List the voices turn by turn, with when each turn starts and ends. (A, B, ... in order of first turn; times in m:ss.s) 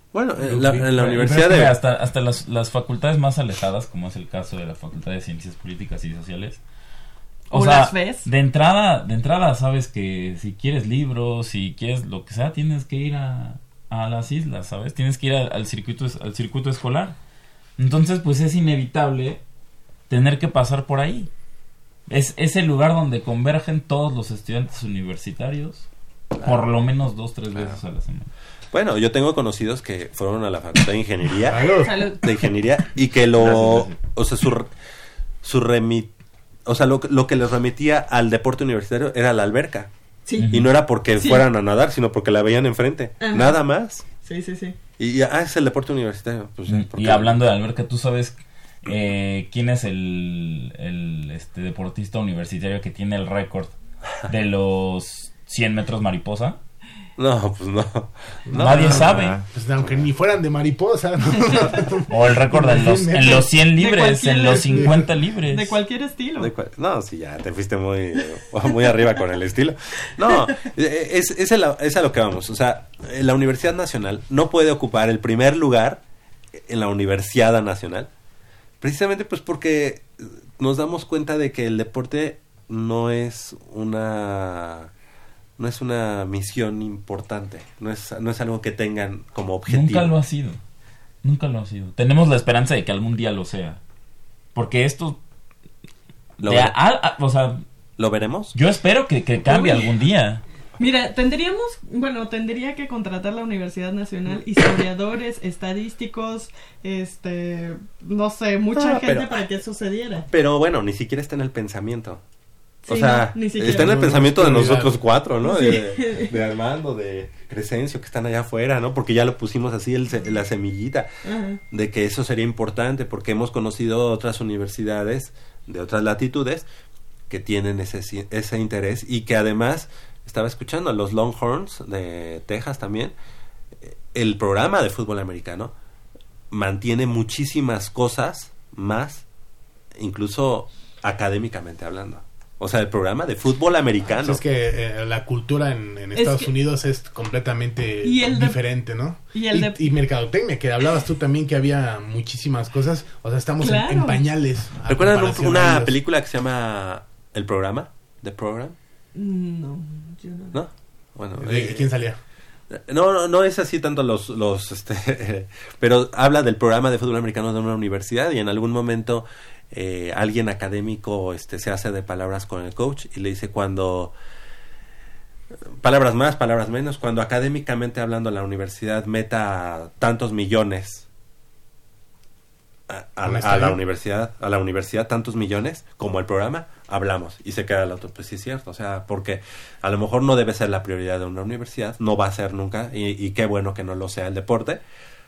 0:00.1-0:01.8 A
0:00.4-0:01.2 B
0:01.2-0:06.6 C
0:07.5-0:17.2 C
0:07.5-0:08.3 D
0:17.8-0:19.4 C
0:20.1-0:21.3 C
0:22.1-0:25.8 C
0:26.4-0:26.6 A
0:26.4-0:28.3 C
0:27.5-0:27.8 A
0:28.7-0:34.7 A
0:31.4-0:31.9 B
0:31.8-0:32.2 D
0:33.4-0:34.0 C
0:35.4-0:36.1 A
0:36.6-0:39.9 A
0:40.2-0:40.5 D
0:40.4-0:40.7 C
0:40.5-0:44.0 A
0:41.2-0:41.4 D
0:43.2-0:43.6 D
0:44.2-0:44.8 D
0:45.0-0:47.4 A
0:46.7-0:53.7 C
0:54.3-0:56.6 C
0:57.2-1:00.0 A
0:58.5-1:03.5 B
0:58.5-0:59.4 C
1:02.1-1:05.7 C
1:03.8-1:06.5 D
1:04.5-1:05.1 B
1:06.4-1:16.0 A
1:16.7-1:18.1 A
1:18.8-1:20.0 A
1:20.6-1:24.9 A
1:25.6-1:30.1 A
1:29.7-1:30.6 C
1:31.2-1:33.8 C
1:34.5-1:35.2 C
1:36.4-1:36.7 A
1:36.4-1:37.6 C
1:38.0-1:38.5 A
1:38.5-1:40.4 C
1:39.4-1:39.9 D
1:40.8-1:50.2 D
1:48.7-1:49.4 A
1:50.3-1:52.2 A
1:52.9-1:54.1 D
1:52.9-2:01.1 A
1:53.6-1:55.0 B
1:55.4-1:56.3 D
2:01.2-2:01.6 D
2:01.7-2:06.6 A
2:07.3-2:13.1 A
2:13.8-2:15.7 A
2:16.5-2:19.2 A
2:20.0-2:24.4 A
2:24.1-2:36.0 B
2:26.1-2:26.5 D
2:28.0-2:28.6 D
2:29.3-2:29.9 D
2:33.6-2:34.2 D
2:34.9-2:38.7 A
2:39.1-2:40.6 D
2:40.5-2:41.9 A
2:41.4-2:42.2 B
2:42.7-2:54.1 A
2:55.8-3:01.1 A
3:02.9-3:14.8 A
3:03.2-3:03.8 B